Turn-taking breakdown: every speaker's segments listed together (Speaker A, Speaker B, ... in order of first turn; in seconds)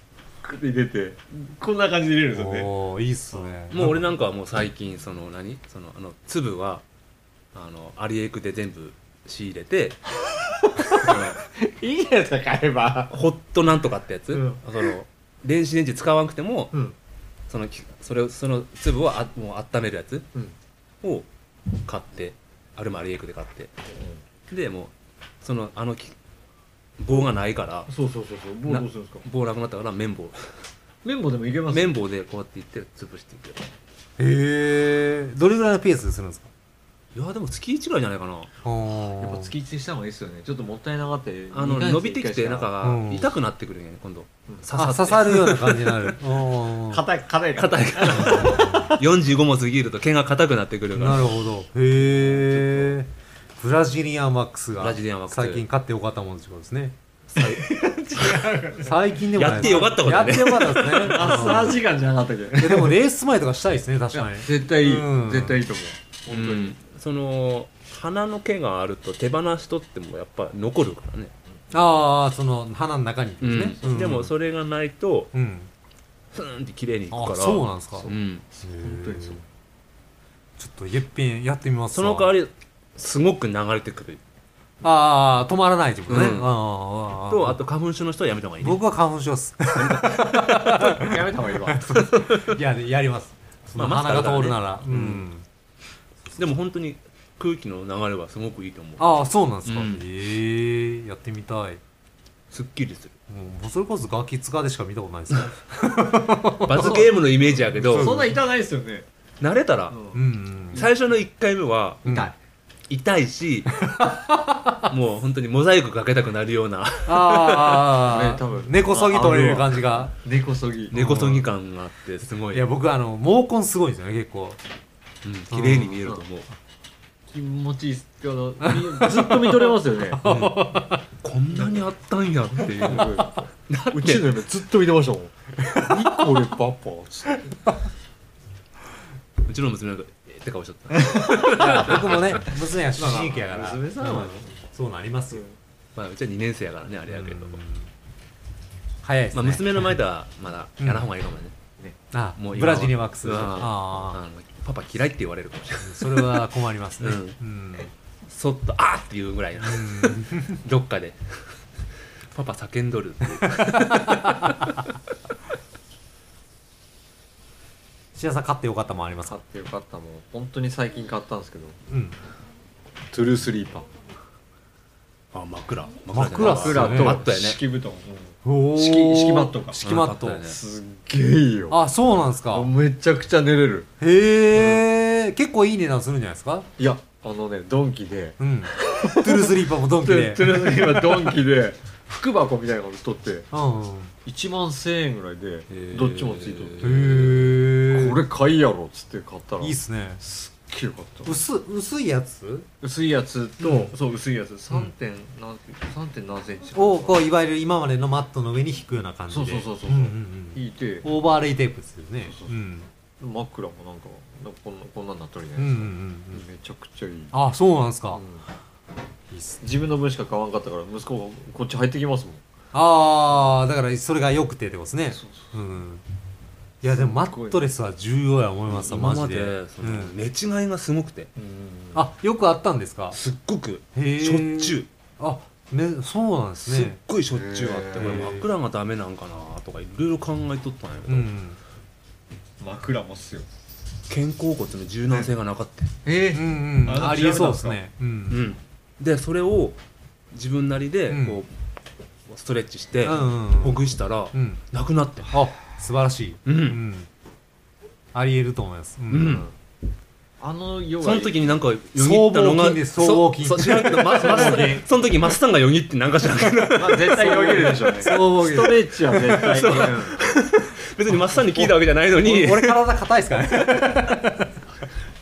Speaker A: 0.4-2.7, 10.6-13.2, 14.3-14.8, 27.9-29.2, 31.0-32.0, 39.2-42.7, 46.9-49.0, 52.0-52.9, 57.4-63.0, 64.1-66.8, 78.5-79.4, 90.9-91.9, 106.8-107.1, 107.8-109.1, 109.9-110.2, 118.0-121.0, 127.3-130.2, 132.7-137.5, 141.1-142.0, 142.9-144.6, 169.3-171.8, 173.1-173.9, 176.3-179.8, 180.4-181.8, 182.5-183.9, 184.5-184.8, 186.8-193.5, 194.2-201.3, 202.8-207.2, 209.3-211.1, 212.3-212.5, 213.2-217.3, 218.1-218.4, 219.6-222.4, 225.1-225.4, 226.9-227.6, 231.3-232.0, 237.3-238.4, 242.6-243.5, 246.0-247.8, 259.2-259.5, 260.4-261.5, 264.1-264.9, 266.7-270.2
Speaker B: 2.3-4.0, 34.2-36.5, 38.6-39.5, 42.8-43.3, 44.7-47.0, 48.1-48.9, 50.9-56.9, 58.8-61.8, 62.6-65.6, 71.7-74.3, 75.3-75.7, 77.1-78.1, 78.6-79.4, 80.6-82.3, 84.8-87.6, 88.6-91.2, 91.7-95.4, 99.0-101.8, 103.3-107.1, 107.7-108.4, 110.1-110.8, 112.0-112.3, 113.8-114.8, 117.1-120.1, 120.9-121.5, 122.5-124.6, 125.5-126.0, 128.6-131.0, 135.7-136.2, 141.5-145.4, 147.1-147.9, 149.0-149.9, 150.8-151.1, 152.1-154.2, 155.8-157.9, 159.6-160.6, 163.4-164.5, 168.1-169.4, 171.9-172.2, 176.1-177.2, 178.4-180.4, 181.7-182.7, 184.0-186.7, 188.4-191.3, 193.5-194.1, 196.8-198.2, 199.6-200.2, 201.2-202.7, 203.6-203.9, 206.8-212.9, 215.6-216.4, 217.3-218.2, 219.3-219.6, 222.7-226.0, 226.8-230.1, 231.9-233.2, 233.9-237.0, 238.0-238.4, 241.1-241.6, 246.3-248.4, 251.1-251.4, 253.0-253.8, 254.3-254.6, 255.3-257.1, 258.1-259.4, 261.9-264.8, 267.1-269.4, 271.1-274.6
Speaker C: 3.7-6.8, 7.5-10.0, 10.9-11.4, 13.1-16.7, 17.5-20.3, 21.0-23.7, 24.5-26.1, 27.0-27.9, 28.6-30.6, 31.7-33.7, 37.1-38.5, 41.5-46.1, 47.5-51.4, 54.8-55.6, 57.3-58.4, 59.4-61.7, 66.3-71.3, 73.4-75.3, 76.3-78.4, 81.9-84.2, 86.1-86.5, 87.3-88.8, 89.7-90.9, 91.9-92.6, 93.8-95.3, 96.3-100.0, 102.5-103.1, 106.6-108.3, 109.4-110.0, 110.7-112.2, 112.9-113.9, 114.9-117.8, 120.9-122.7, 125.2-126.5, 130.2-134.4, 139.4-142.4, 145.9-147.6, 149.3-151.6, 152.4-156.4, 157.0-157.3, 158.2-161.6, 162.2-164.8, 175.3-177.6, 179.8-180.6, 195.7-196.9, 228.8-231.3, 233.1-234.9, 236.6-241.3, 244.1-245.9, 248.3-249.8, 250.3-251.5, 252.3-255.3, 256.5-256.8, 259.1-259.5, 261.0-268.1, 269.1-272.9